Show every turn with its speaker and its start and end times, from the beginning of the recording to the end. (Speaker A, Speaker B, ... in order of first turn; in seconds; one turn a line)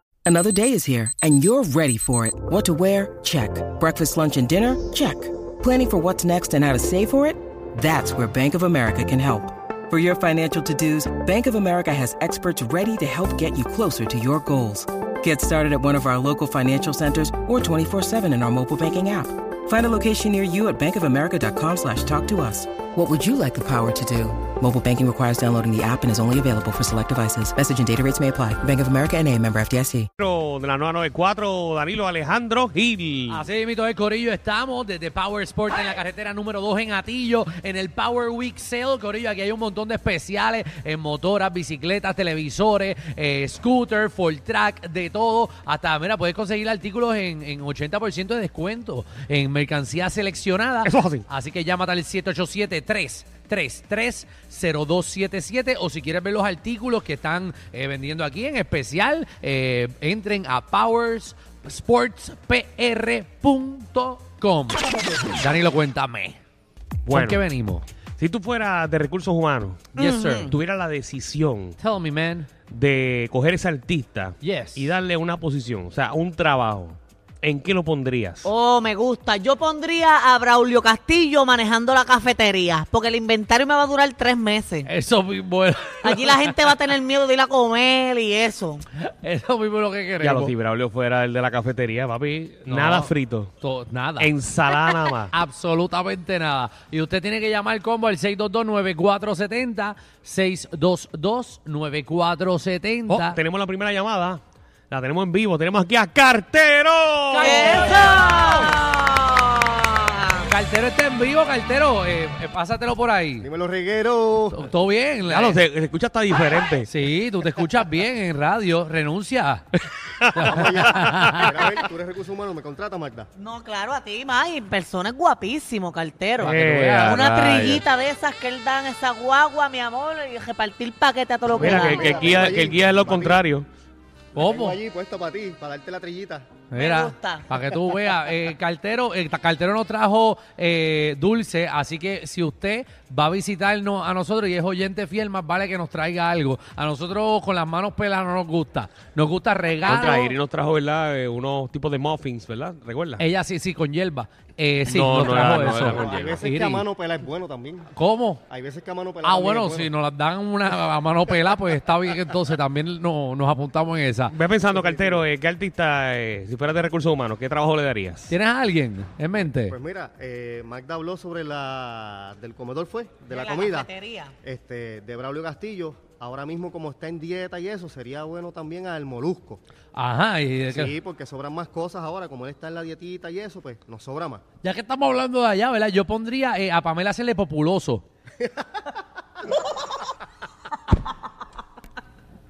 Speaker A: 0.2-30.1
Speaker B: 30.2-33.5
Speaker C: 33.3-64.8
Speaker B: 50.9-51.2
Speaker C: 65.3-66.4
Speaker B: 67.1-67.4
Speaker C: 67.1-67.8
Speaker B: 68.2-69.9
Speaker C: 70.0-70.5
Speaker D: 70.0-70.5
Speaker B: 70.5-71.8
Speaker C: 71.8-72.5
Speaker B: 72.7-78.5
Speaker C: 74.4-74.9
Speaker D: 78.4-84.9
Speaker C: 84.9-86.8
Speaker D: 86.0-88.8
Speaker C: 89.0-90.5
Speaker B: 90.2-93.5
Speaker C: 92.7-94.3
Speaker B: 94.2-95.3
Speaker C: 95.3-103.4
Speaker B: 103.1-108.0
Speaker D: 107.3-110.4
Speaker C: 110.5-113.5
Speaker E: 113.4-114.7
Speaker C: 114.5-115.6
Speaker B: 115.3-116.9
Speaker C: 116.9-119.7
Speaker B: 120.2-121.4
Speaker C: 120.4-121.5
Speaker E: 120.4-123.3
Speaker D: 123.4-132.5
Speaker C: 126.4-127.3
Speaker B: 126.4-127.8
Speaker E: 131.5-133.4
Speaker B: 131.6-133.7
Speaker C: 134.3-134.8
Speaker E: 134.3-136.5
Speaker C: 136.7-150.3
Speaker D: 136.8-137.5
Speaker B: 149.9-153.2
Speaker C: 153.2-156.8
Speaker B: 154.8-156.4
Speaker E: 155.5-157.9
Speaker C: 157.9-158.4
Speaker E: 158.5-159.9
Speaker C: 159.2-164.3
Speaker B: 164.3-168.3
Speaker E: 164.7-165.2
Speaker C: 168.3-169.8
Speaker E: 169.6-173.9
Speaker D: 173.3-174.3
Speaker E: 174.4-179.6
Speaker C: 179.9-181.0
Speaker E: 180.7-184.4
Speaker C: 184.6-188.0